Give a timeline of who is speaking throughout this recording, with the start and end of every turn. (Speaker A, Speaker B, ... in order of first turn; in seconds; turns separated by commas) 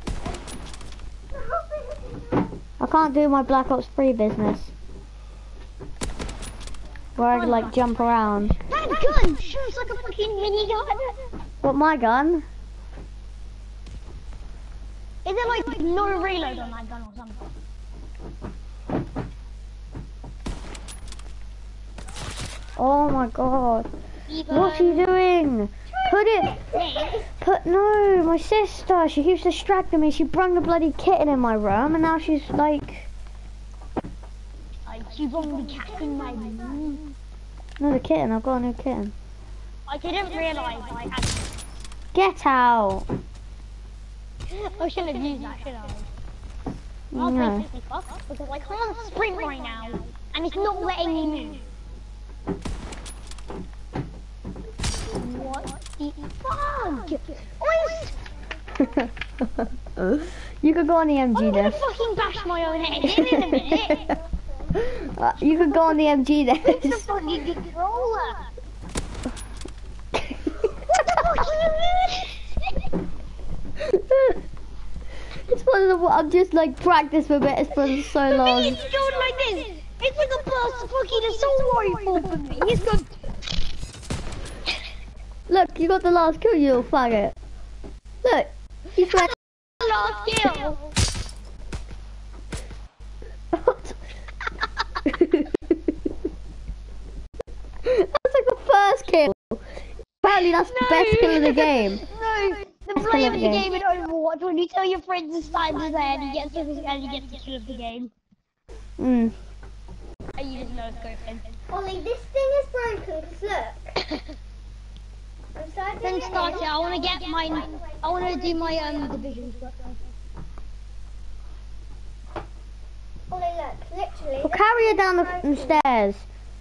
Speaker A: 1.3-2.4, Speaker B: 2.8-4.7, Speaker B: 7.2-8.6, Speaker C: 7.3-7.8, Speaker C: 8.6-11.2, Speaker B: 11.6-12.4, Speaker C: 15.2-17.5, Speaker B: 22.8-23.9, Speaker C: 24.3-25.1, Speaker B: 24.5-26.6, Speaker A: 26.5-27.1, Speaker C: 26.5-27.2, Speaker B: 27.4-33.1, Speaker C: 34.9-37.1, Speaker B: 37.8-39.1, Speaker C: 39.9-41.7, Speaker B: 42.1-43.1, Speaker C: 44.5-46.1, Speaker B: 47.1-47.7, Speaker C: 47.2-51.7, Speaker C: 55.1-58.2, Speaker B: 58.8-61.8, Speaker C: 61.3-64.1, Speaker B: 63.1-63.9, Speaker B: 64.8-67.1, Speaker C: 66.6-68.5, Speaker B: 70.2-70.5, Speaker C: 71.0-72.7, Speaker B: 73.9-74.4, Speaker B: 75.5-78.8, Speaker C: 78.1-83.1, Speaker B: 85.5-87.4, Speaker B: 88.2-89.3, Speaker C: 89.8-90.9, Speaker B: 93.5-94.0, Speaker B: 95.1-95.5, Speaker B: 97.8-99.6, Speaker B: 100.2-102.0, Speaker C: 100.6-108.1, Speaker B: 103.0-103.7, Speaker B: 109.0-109.3, Speaker C: 110.4-111.6, Speaker A: 111.7-113.9, Speaker A: 115.5-119.0, Speaker C: 116.0-120.0, Speaker A: 123.3-125.8, Speaker B: 124.4-126.2